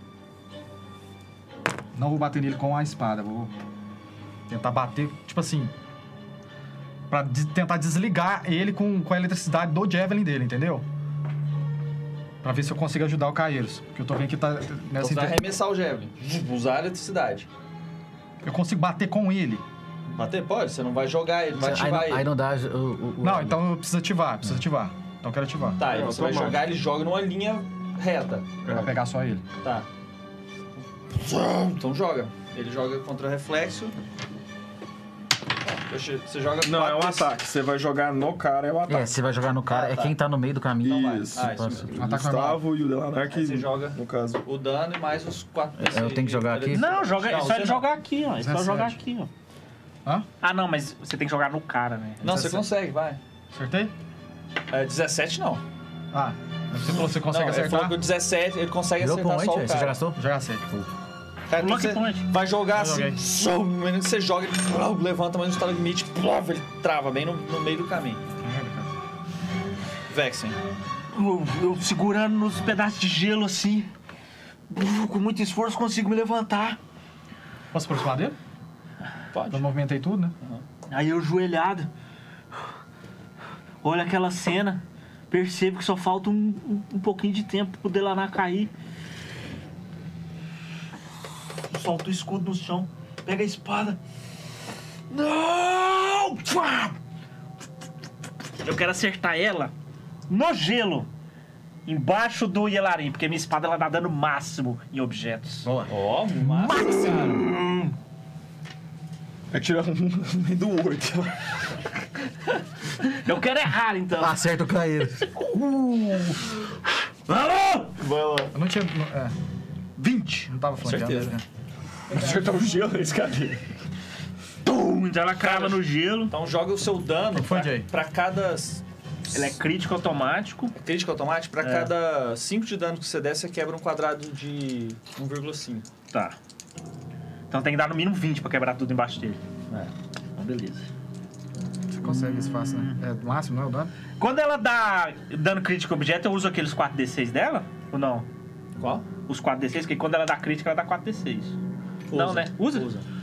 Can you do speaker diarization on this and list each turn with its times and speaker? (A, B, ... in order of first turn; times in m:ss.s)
0:01.9-0:03.5 A
0:04.5-0:05.7 A
0:07.1-0:10.8 A
0:12.4-0:15.4 A
0:15.0-0:17.5 B
0:18.4-0:19.6 A
0:20.1-0:22.3 B
0:21.5-0:23.7 C
0:23.2-0:25.8 A
0:25.8-0:28.5 B
0:25.8-0:26.7 D
0:28.6-0:29.0 D
0:28.7-0:29.4 A
0:29.6-0:29.9 B
0:31.2-0:33.9 B
0:35.8-0:37.3 B
0:36.6-0:39.1 D
0:38.9-0:41.9 C
0:39.7-0:40.1 B
0:40.8-0:44.4 D
0:41.3-0:41.9 B
0:42.0-0:42.7 A
0:43.3-0:47.9 B
0:45.8-0:47.0 C
0:46.7-0:49.3 E
0:48.4-0:49.0 A
0:50.4-0:52.2 E
0:52.2-0:53.2 B
0:52.2-0:52.6 A
0:53.5-0:53.9 A
0:54.7-0:55.6 B
0:56.1-0:58.0 A
0:57.2-1:00.0 B
0:59.0-1:00.9 C
1:00.2-1:00.7 A
1:01.5-1:08.2 B
1:01.6-1:02.3 E
1:02.7-1:03.2 A
1:08.4-1:08.9 A
1:10.1-1:10.6 B
1:11.1-1:13.9 E
1:14.7-1:16.8 E
1:17.7-1:18.4 A
1:19.3-1:19.7 B
1:19.5-1:20.4 A
1:20.9-1:21.9 E
1:23.8-1:28.7 E
1:31.7-1:34.0 E
1:35.1-1:36.9 E
1:38.6-1:39.7 E
1:40.3-1:41.1 E
1:41.8-1:45.7 E
1:45.9-1:47.4 B
1:46.8-1:47.9 D
1:49.5-1:51.5 D
1:53.0-1:54.4 E
1:54.2-1:55.3 C
1:55.7-1:56.4 E
1:57.3-1:57.8 E
1:57.9-1:58.5 D
1:58.5-1:59.4 A
2:00.0-2:00.4 E
2:00.4-2:01.4 A
2:00.8-2:01.4 B
2:02.1-2:03.6 D
2:04.6-2:06.3 E
2:05.4-2:08.8 B
2:07.3-2:07.9 A
2:09.3-2:10.7 E
2:10.8-2:15.8 B
2:11.6-2:11.9 E
2:17.5-2:19.4 E
2:20.4-2:20.9 E
2:21.9-2:23.9 A
2:24.2-2:28.3 E
2:28.8-2:29.1 B
2:29.3-2:31.6 E
2:32.1-2:33.0 B
2:32.1-2:32.9 E